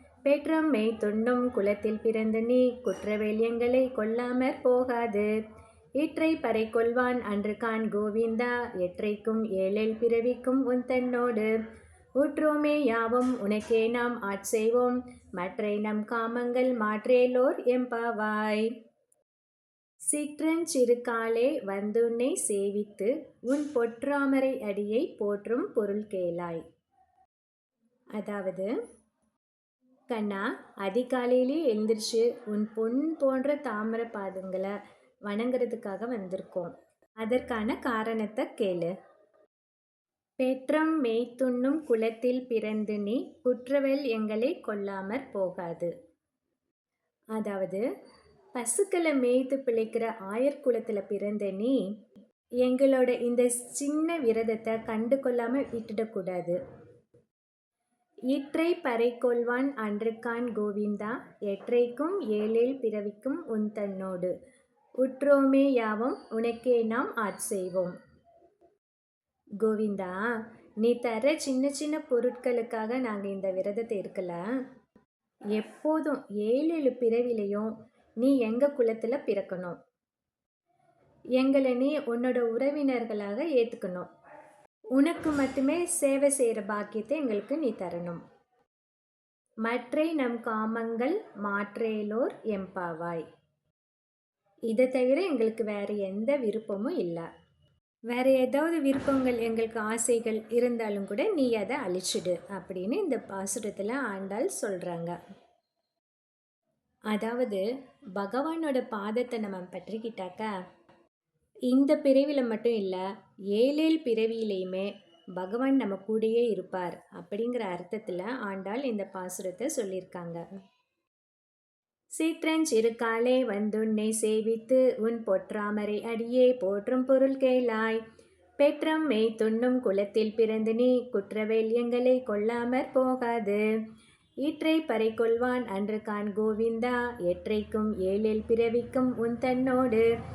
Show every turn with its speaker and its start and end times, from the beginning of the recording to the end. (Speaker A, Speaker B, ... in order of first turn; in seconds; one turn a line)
Speaker A: 0.2-5.3
Speaker A: 6.0-11.5
Speaker A: 12.2-18.7
Speaker A: 20.1-26.6
Speaker A: 28.1-28.7
Speaker A: 30.1-34.7
Speaker A: 35.3-38.9
Speaker A: 40.4-45.9
Speaker A: 47.4-47.8
Speaker A: 48.5-51.8
Speaker A: 52.6-56.6
Speaker A: 58.3-64.3
Speaker A: 65.0-67.9
Speaker A: 69.6-70.2
Speaker A: 70.8-74.4
Speaker A: 75.5-79.8
Speaker A: 81.4-84.1
Speaker A: 85.0-88.2
Speaker A: 89.7-93.3
Speaker A: 94.7-97.3
Speaker A: 98.1-105.2
Speaker A: 107.1-110.5
Speaker A: 111.7-120.4
Speaker A: 122.2-128.0
Speaker A: 128.6-133.6
Speaker A: 134.4-140.1